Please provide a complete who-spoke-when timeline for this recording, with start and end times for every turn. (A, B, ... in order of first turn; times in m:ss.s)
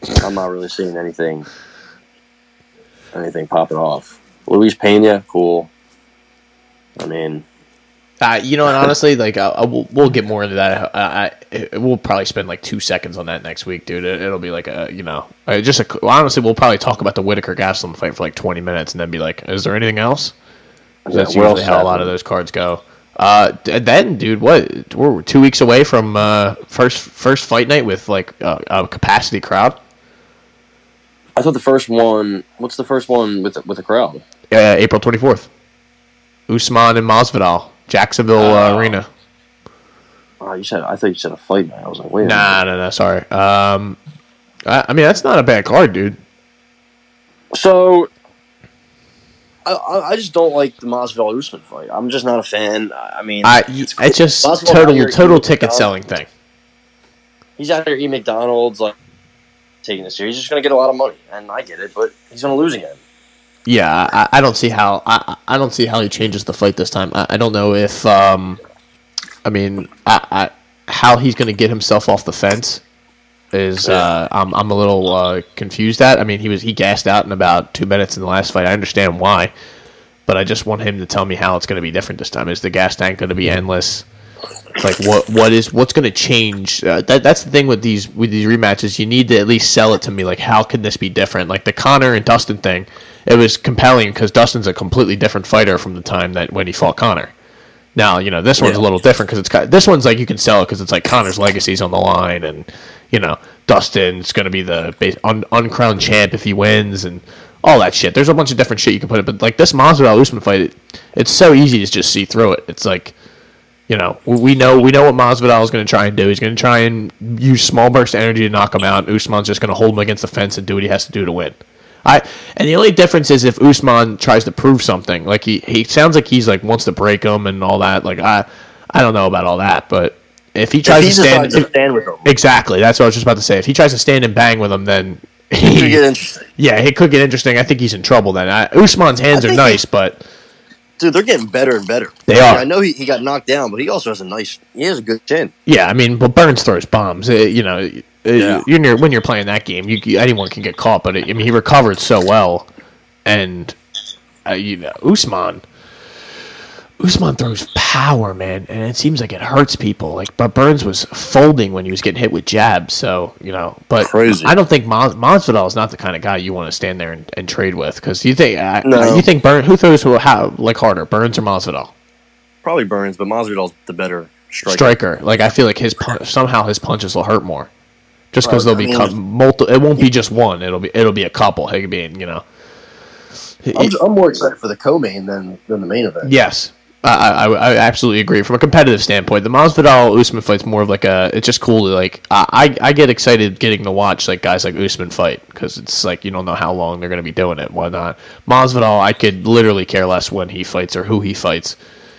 0:00.2-0:01.4 A
0:03.1-0:05.7 A
0:07.0-0:07.4 A
0:08.2-0:20.3 B
0:21.0-0:22.1 A
0:21.1-0:29.8 B
0:31.4-0:34.2 A
0:34.5-0:35.5 B
0:36.5-0:39.1 B
0:38.4-0:39.0 A
0:40.4-0:42.6 A
0:42.2-0:44.0 B
0:44.6-0:46.2 B
0:47.5-0:48.1 A
0:49.6-0:55.9 A
0:53.4-0:56.3 B
0:57.6-0:58.9 A
0:59.8-1:03.0 A
1:03.6-1:08.6 B
1:09.4-1:12.8 B
1:13.5-1:19.5 B
1:13.8-1:14.1 A
1:20.3-1:24.0 B
1:24.8-1:37.3 B
1:37.9-1:53.1 B
1:53.9-2:11.7 B
2:10.8-2:12.3 A
2:12.2-2:16.0 B
2:15.7-2:16.4 A
2:16.6-2:20.2 B
2:19.3-2:19.8 A
2:21.0-2:25.5 A
2:22.3-2:22.6 B
2:25.6-2:32.7 B
2:28.4-2:28.6 A
2:33.2-2:33.8 B
2:34.4-2:35.6 B
2:37.0-2:51.9 B
2:44.0-2:44.5 A
2:48.8-2:49.2 A
2:52.6-2:54.9 A
2:54.6-2:57.7 B
2:58.3-3:02.4 B
2:58.4-2:59.1 A
3:03.6-3:03.9 B
3:03.7-3:06.3 A
3:06.2-3:21.8 B